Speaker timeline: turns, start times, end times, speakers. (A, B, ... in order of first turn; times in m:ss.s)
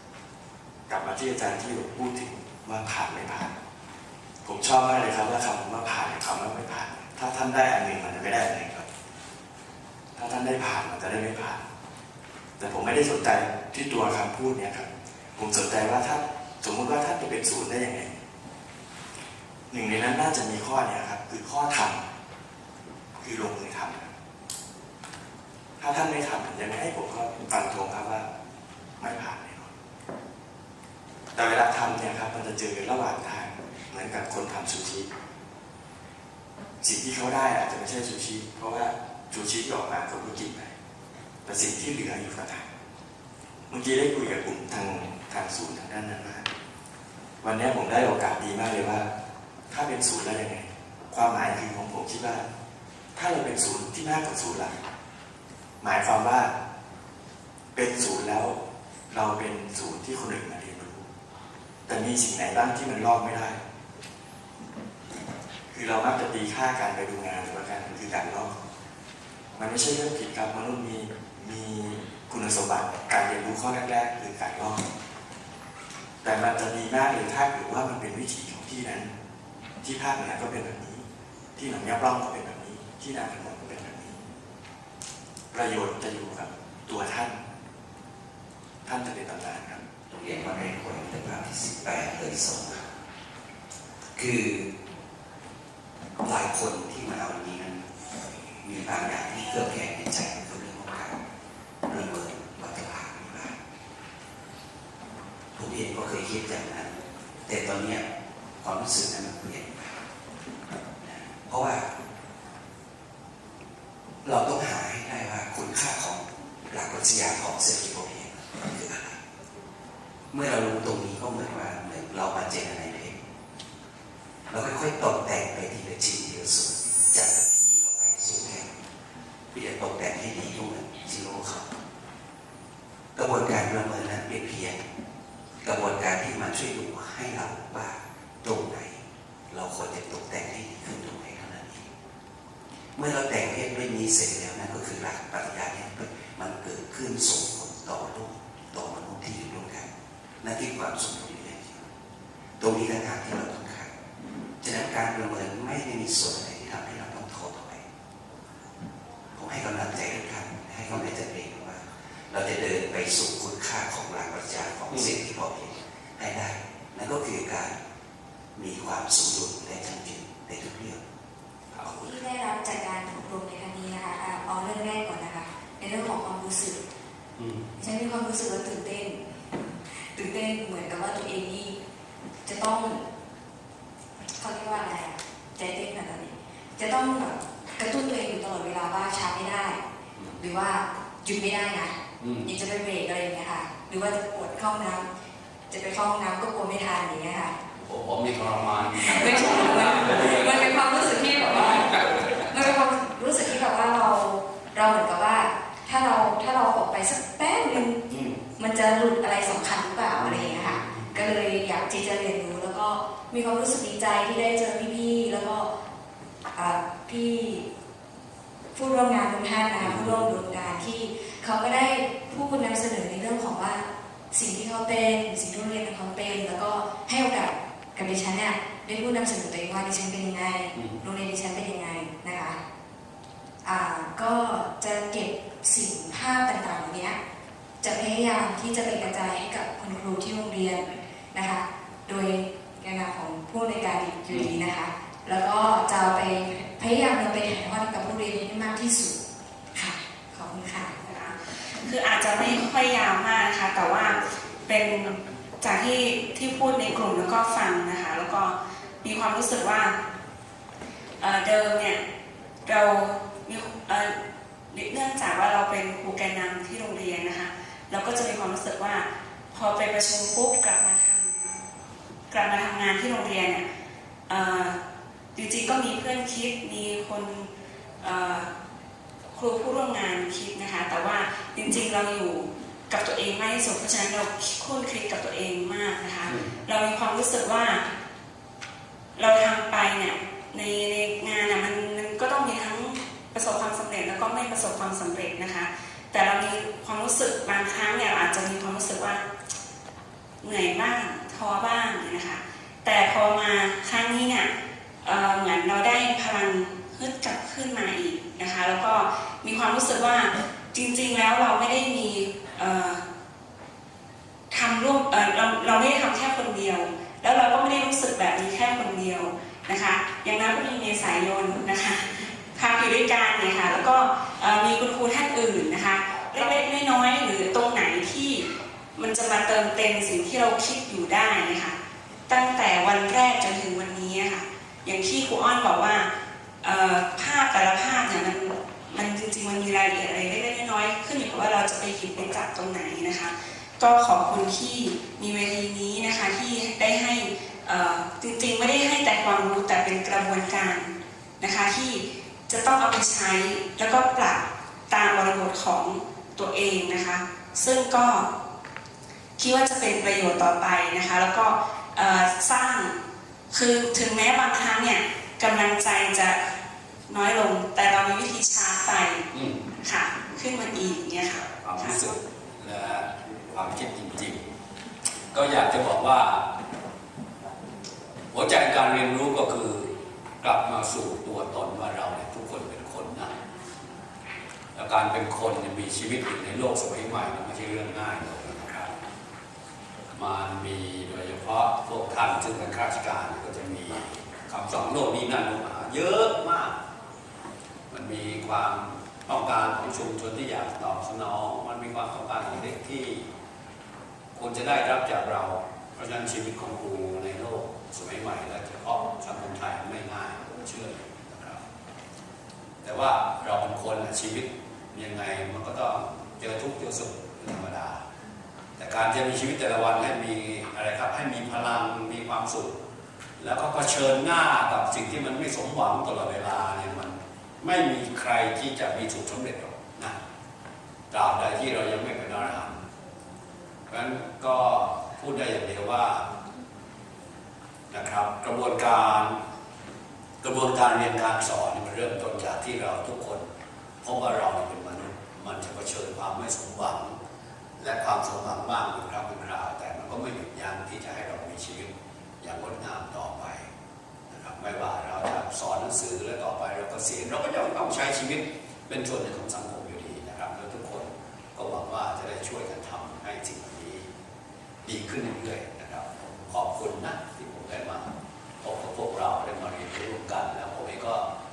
0:00.9-0:03.5 A
0:04.4-0:08.9 A
0:10.2-0:11.6 A
0:12.6-0:18.2 A
0:19.7-0:22.0 A
0:23.2-0:24.1 A
0:25.8-0:28.3 A
0:29.0-0:29.7 A
0:31.4-0:35.1 A
0:36.8-0:40.7 A
0:41.4-0:42.7 A
0:43.7-0:46.5 A
0:47.4-0:49.1 A
0:49.7-0:52.5 A
0:53.2-0:54.8 A
0:55.8-0:56.5 A
0:57.7-0:58.6 A
0:59.1-1:01.1 A
1:01.9-1:03.6 A
1:05.7-1:08.6 A
1:09.6-1:14.8 A
1:16.2-1:19.1 A
1:19.8-1:24.2 A
1:25.5-1:27.4 A
1:28.8-1:29.8 A
1:30.1-1:32.9 B
1:34.2-1:34.7 B
1:36.2-1:37.9 B
1:38.6-1:41.2 B
1:41.9-1:43.6 B
1:45.6-1:48.0 B
1:48.6-1:50.0 B
1:51.0-1:51.9 B
1:54.2-1:59.2 B
2:00.3-2:03.2 B
2:04.5-2:08.7 B
2:09.5-2:11.7 B
2:13.2-2:14.8 B
2:15.6-2:21.9 B
2:23.0-2:29.9 B
2:30.4-2:31.8 B
2:32.6-2:33.9 B
2:34.6-2:37.8 B
2:39.4-2:47.8 B
2:44.9-2:45.2 C
2:48.6-2:51.0 B
2:51.8-2:52.1 A
2:51.8-2:56.8 D
2:57.4-2:57.7 C
2:57.8-2:59.2 D
3:00.1-3:01.8 D
3:02.4-3:03.0 D
3:04.4-3:09.8 D
3:10.4-3:15.1 D
3:12.2-3:12.5 C
3:15.7-3:17.6 D
3:17.8-3:22.5 C
3:19.0-3:28.0 D
3:28.1-3:28.4 C
3:28.6-3:35.7 D
3:30.2-3:31.2 C
3:36.5-3:37.7 D
3:38.7-3:52.6 D
3:39.8-3:40.2 C
3:53.6-3:57.2 D
3:57.8-4:09.2 D
4:04.3-4:04.6 C
4:09.7-4:11.0 D
4:11.0-4:20.0 E
4:21.2-4:22.0 E
4:22.6-4:24.2 E
4:24.7-4:31.3 E
4:32.3-4:33.6 E
4:34.3-4:34.8 E
4:35.4-4:37.5 E
4:38.0-4:38.5 E
4:39.3-4:47.9 E
4:49.2-4:59.2 E
5:00.4-5:04.5 E
5:05.0-5:13.0 E
5:14.5-5:31.8 E
5:32.3-5:36.1 E
5:36.6-5:58.3 E
5:59.4-6:03.0 E
6:03.5-6:06.4 E
6:07.1-6:09.2 E
6:09.3-6:09.6 C
6:09.8-6:12.1 E
6:11.3-6:14.4 C
6:15.3-6:16.4 C
6:18.3-6:23.3 C
6:24.7-6:28.9 C
6:30.1-6:36.8 C
6:37.9-6:43.2 C
6:44.3-6:51.6 C
6:52.8-6:58.0 C
6:58.8-7:02.8 C
7:03.4-7:10.2 C
7:11.1-7:12.8 C
7:13.9-7:16.3 C
7:17.9-7:19.4 C
7:20.4-7:23.4 C
7:24.0-7:27.2 C
7:27.8-7:33.7 C
7:34.3-7:44.1 C
7:44.8-7:48.1 C
7:48.6-7:51.2 C